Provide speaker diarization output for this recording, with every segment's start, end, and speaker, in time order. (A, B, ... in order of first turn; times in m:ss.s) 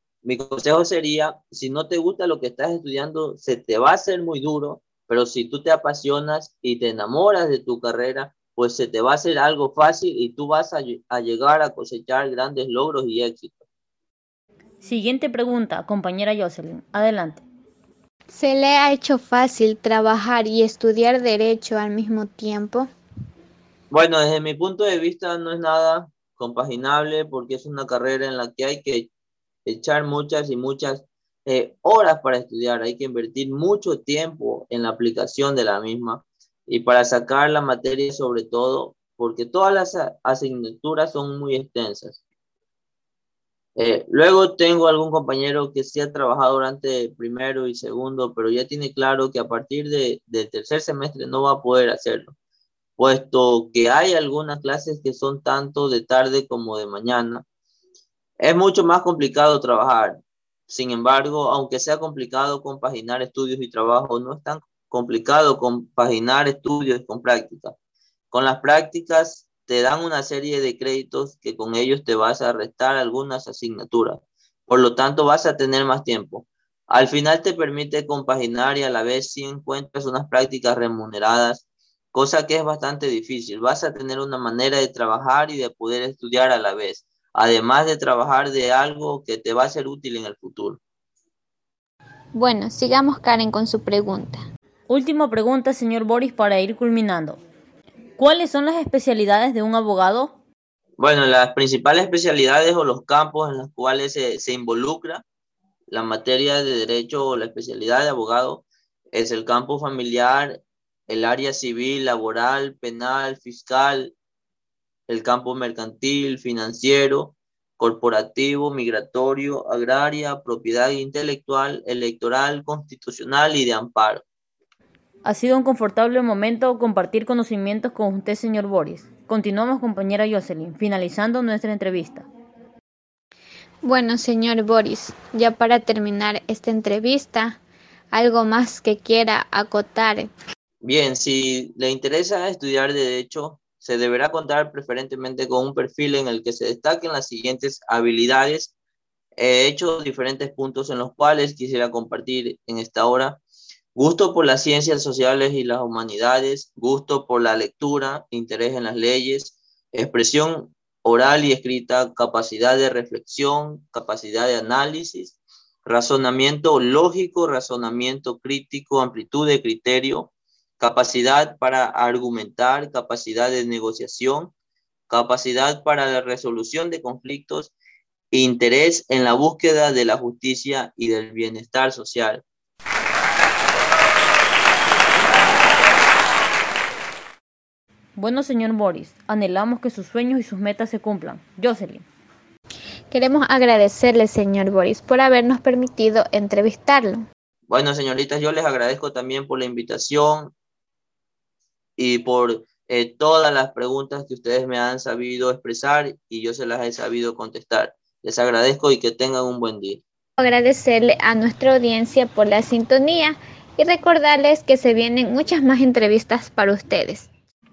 0:00.2-0:13.6 A
0:14.8-0:17.4 B
0:18.3-0:22.9 C
0:23.9-0:29.1 A
0:29.6-0:42.2 A
0:43.8-0:52.3 A
0:53.0-0:57.4 A
0:58.4-1:00.2 A
1:00.7-1:07.7 A
1:08.3-1:21.6 A
1:22.1-1:30.8 A
1:32.3-1:34.4 C
1:34.9-1:37.4 B
1:38.2-1:40.3 B
1:41.0-1:45.2 A
1:45.9-1:54.1 A
1:55.1-2:04.2 A
2:05.2-2:12.2 B
2:13.8-2:17.6 C
2:18.1-2:20.3 C
2:20.8-2:28.7 A
2:29.4-2:33.4 A
2:33.9-2:54.5 A
2:55.1-2:57.7 A
2:58.3-3:02.4 A
3:08.2-3:12.0 B
3:13.1-3:17.2 C
3:17.7-3:20.5 A
3:22.0-3:30.0 A
3:30.4-3:37.3 C